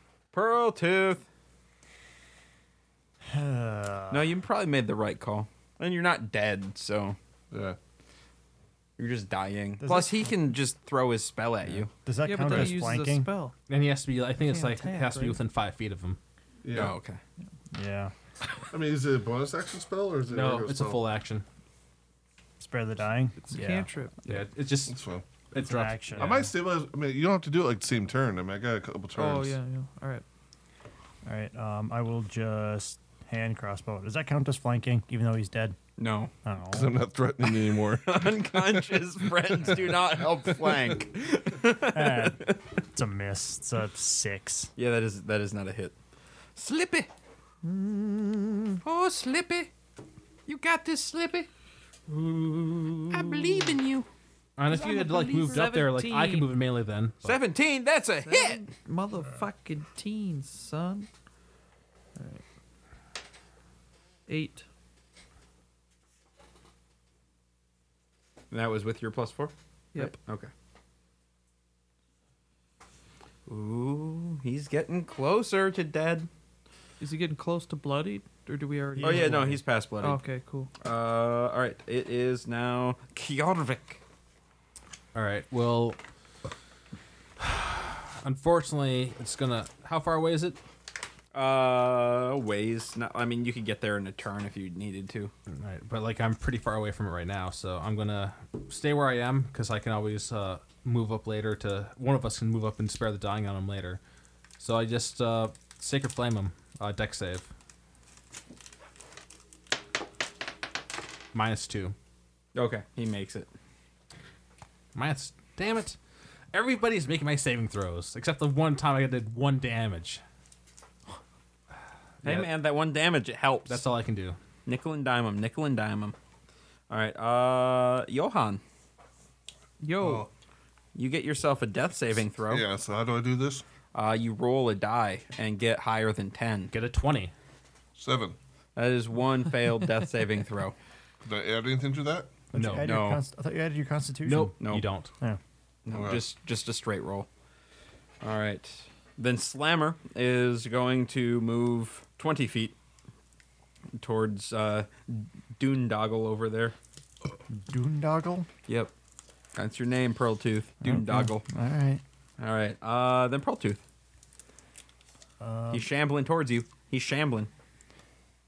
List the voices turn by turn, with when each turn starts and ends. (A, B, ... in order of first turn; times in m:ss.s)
0:00.3-0:01.2 A
0:03.2-0:04.3 B
0:04.1-0:07.2 A
0:07.5-0:07.8 C
0:09.0-0:11.9 A
0:09.8-0:10.3 B
0:12.0-0:13.3 B
0:12.2-0:13.5 D
0:12.4-0:12.8 C
0:13.7-0:16.2 E
0:14.4-0:15.4 D
0:16.6-0:17.0 C
0:16.7-0:17.2 A
0:17.7-0:18.1 B
0:18.7-0:21.0 C
0:20.3-0:21.4 E
0:22.6-0:23.9 B
0:23.4-0:24.3 D
0:24.3-0:25.0 E
0:24.9-0:25.2 C
0:25.5-0:26.3 E
0:25.5-0:26.5 B
0:26.2-0:29.6 C
0:29.1-0:30.2 D
0:31.2-0:35.8 B
0:36.0-0:36.3 A
0:36.4-0:37.0 B
0:36.7-0:39.9 C
0:37.7-0:42.6 A
0:41.8-0:44.7 B
0:44.8-0:45.9 A
0:46.6-0:47.1 A
0:47.6-0:48.8 D
0:48.8-0:49.7 A
0:50.4-0:51.5 A
0:52.1-0:54.1 A
0:54.6-0:57.4 E
0:54.7-0:56.5 D
0:57.2-0:58.6 A
0:58.2-1:01.1 D
1:02.2-1:02.4 D
1:04.3-1:04.6 D
1:08.5-1:10.5 A
1:13.5-1:16.3 A
1:17.0-1:20.7 D
1:18.9-1:19.6 B
1:19.0-1:20.2 A
1:20.8-1:24.0 A
1:25.1-1:26.0 E
1:27.4-1:30.6 E
1:31.3-1:35.3 A
1:35.5-1:44.0 E
1:44.6-1:47.5 E
1:51.3-1:51.9 E
1:52.5-1:53.5 A
1:54.9-1:56.0 E
1:56.5-2:00.2 E
2:02.2-2:02.5 E
2:02.2-2:03.8 A
2:03.7-2:04.4 E
2:04.6-2:06.1 A
2:06.9-2:08.6 A
2:09.8-2:10.3 D
2:10.0-2:10.3 C
2:10.9-2:12.6 A
2:12.5-2:13.6 C
2:13.9-2:16.7 A
2:16.7-2:17.3 E
2:18.0-2:18.4 C
2:18.8-2:20.8 A
2:21.2-2:22.3 C
2:22.5-2:24.6 B
2:22.5-2:22.9 E
2:22.8-2:23.2 A
2:24.2-2:25.1 E
2:24.6-2:24.8 A
2:25.8-2:27.3 A
2:25.9-2:26.2 C
2:28.2-2:32.8 A
2:34.0-2:36.8 A
2:37.5-2:38.5 B
2:38.7-2:38.9 A
2:39.6-2:41.4 A
2:40.8-2:42.0 B
2:42.4-2:43.8 A
2:45.4-2:45.9 B
2:45.7-2:47.5 A